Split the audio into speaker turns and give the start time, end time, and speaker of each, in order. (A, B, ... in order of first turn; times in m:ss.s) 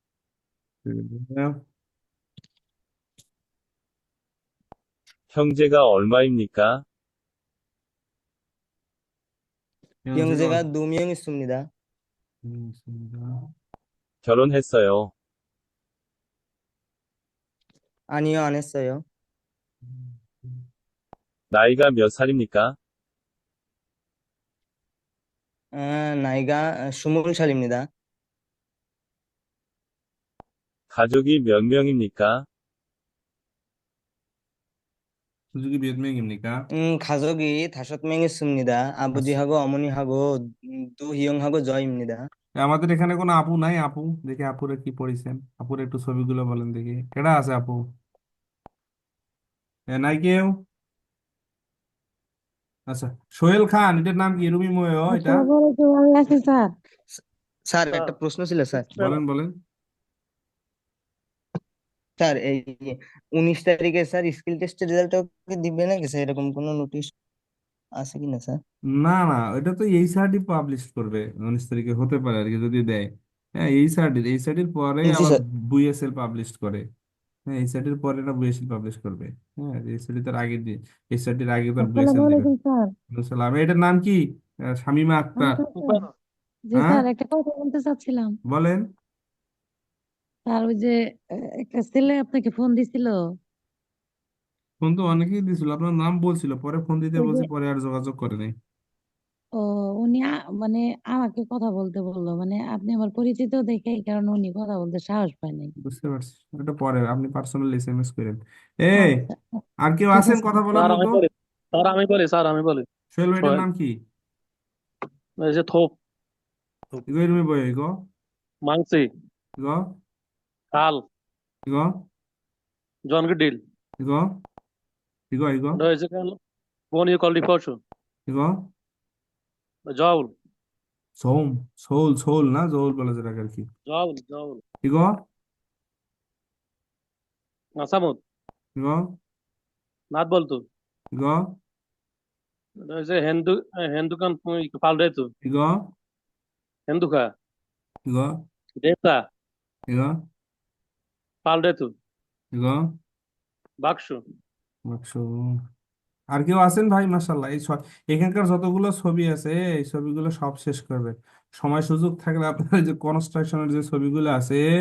0:00.8-0:01.5 A
0:05.3-0:06.7 B
0:10.0-0:10.6 A
0:10.1-0:11.6 C
0:12.4-0:13.3 A
0:14.2-0:15.1 B
0:18.1-0:19.0 C
0:19.8-0:20.6 A
0:21.5-0:22.7 B
0:25.8-0:27.8 C
0:30.9-0:32.3 B
0:35.5-0:36.6 A
0:36.8-0:40.2 C
0:40.9-0:42.2 C
0:42.6-0:47.8 A
0:49.9-0:50.5 A
0:52.9-0:55.5 A
0:55.1-0:56.7 D
0:57.7-0:58.9 C
0:58.8-0:59.2 E
0:59.0-0:59.5 A
1:02.2-1:07.1 C
1:08.0-1:08.6 C
1:08.9-1:16.8 A
1:15.0-1:15.4 C
1:17.5-1:22.5 A
1:21.8-1:22.9 D
1:23.1-1:24.2 A
1:24.7-1:25.6 A
1:25.4-1:26.0 D
1:25.8-1:26.1 E
1:26.7-1:28.4 D
1:26.7-1:27.1 A
1:28.5-1:28.8 A
1:30.4-1:30.9 D
1:31.6-1:33.2 D
1:34.8-1:38.5 A
1:37.2-1:37.5 D
1:39.6-1:45.7 D
1:45.8-1:49.3 A
1:48.9-1:49.4 D
1:49.8-1:51.2 A
1:50.1-1:50.6 D
1:50.7-1:52.8 E
1:53.1-1:53.9 A
1:53.4-1:53.6 E
1:55.4-1:56.0 E
1:57.0-1:57.9 A
1:58.6-1:59.1 E
2:00.7-2:01.0 E
2:03.1-2:03.6 E
2:04.0-2:04.3 A
2:05.3-2:05.8 A
2:05.7-2:06.4 E
2:06.9-2:07.8 E
2:08.3-2:08.5 A
2:09.9-2:10.3 E
2:11.2-2:13.7 A
2:13.9-2:14.6 E
2:14.8-2:15.1 A
2:17.8-2:18.2 E
2:18.8-2:19.0 A
2:20.1-2:20.6 E
2:21.1-2:21.4 A
2:22.8-2:25.3 E
2:25.4-2:25.8 A
2:26.9-2:27.3 E
2:28.0-2:28.3 A
2:28.8-2:29.2 E
2:29.9-2:30.1 A
2:31.4-2:31.9 E
2:32.5-2:32.8 A
2:33.8-2:34.2 E
2:34.9-2:35.5 A
2:36.3-2:44.6 A